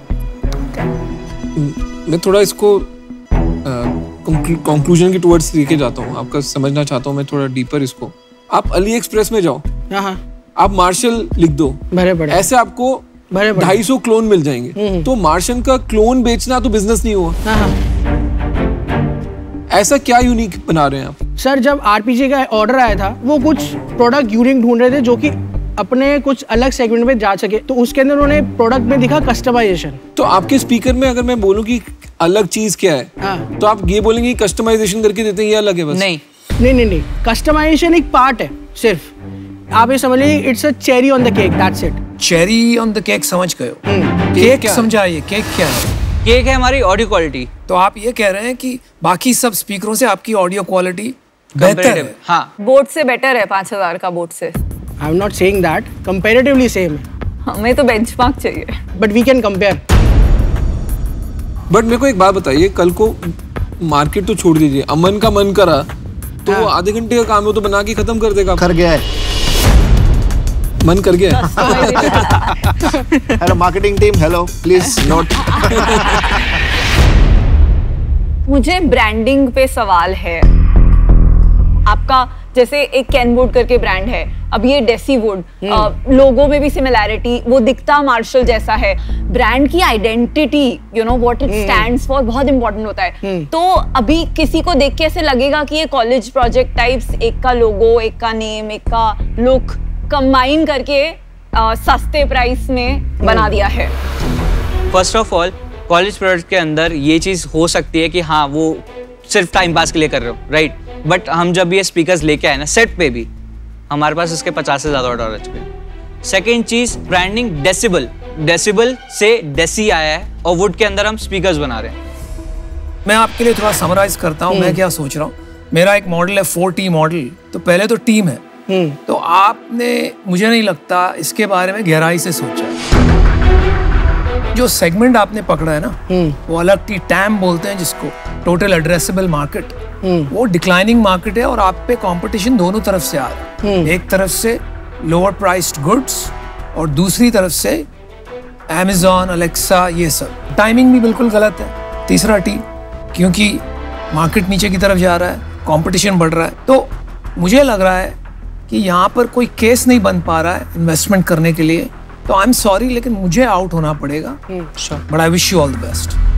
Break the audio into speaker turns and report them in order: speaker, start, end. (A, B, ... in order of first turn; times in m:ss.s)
0:01.6-0:02.9 A
0:03.6-0:09.6 A
0:09.9-0:10.2 B
0:10.6-0:17.4 A
0:11.9-0:12.4 B
0:13.3-0:13.8 B
0:14.8-0:15.1 B
0:17.4-0:17.8 B
0:19.7-0:21.2 A
0:21.4-0:30.0 B
0:30.2-0:36.1 A
0:33.2-0:33.4 B
0:35.9-0:36.2 C
0:36.6-0:39.1 B
0:39.7-0:42.0 B
0:42.2-0:45.9 D
0:43.8-0:44.2 B
0:44.3-0:44.9 A
0:46.2-0:47.5 C
0:47.7-0:52.1 D
0:51.6-0:52.5 C
0:52.6-0:54.6 E
0:55.0-0:57.0 B
0:57.4-0:58.7 E
0:59.0-0:59.8 B
1:01.7-1:03.2 A
1:03.8-1:05.9 A
1:06.4-1:08.6 A
1:08.6-1:09.0 F
1:10.8-1:12.4 A
1:11.3-1:12.5 E
1:12.2-1:12.8 F
1:13.4-1:16.5 F
1:14.8-1:15.6 E
1:15.0-1:16.2 A
1:18.5-1:20.4 E
1:21.9-1:43.9 E
1:25.6-1:25.9 B
1:31.5-1:31.9 B
1:33.2-1:33.5 B
1:43.2-1:43.5 B
1:44.9-1:53.3 C
1:53.9-1:55.7 C
1:56.2-2:01.9 C
2:03.0-2:08.4 D
2:04.5-2:04.8 B
2:08.7-2:09.0 B
2:09.0-2:12.8 D
2:14.5-2:19.8 D
2:16.1-2:16.4 B
2:20.0-2:20.3 B
2:20.3-2:27.9 D
2:23.6-2:23.9 B
2:28.7-2:38.2 D
2:38.7-2:44.4 D
2:45.1-2:46.2 D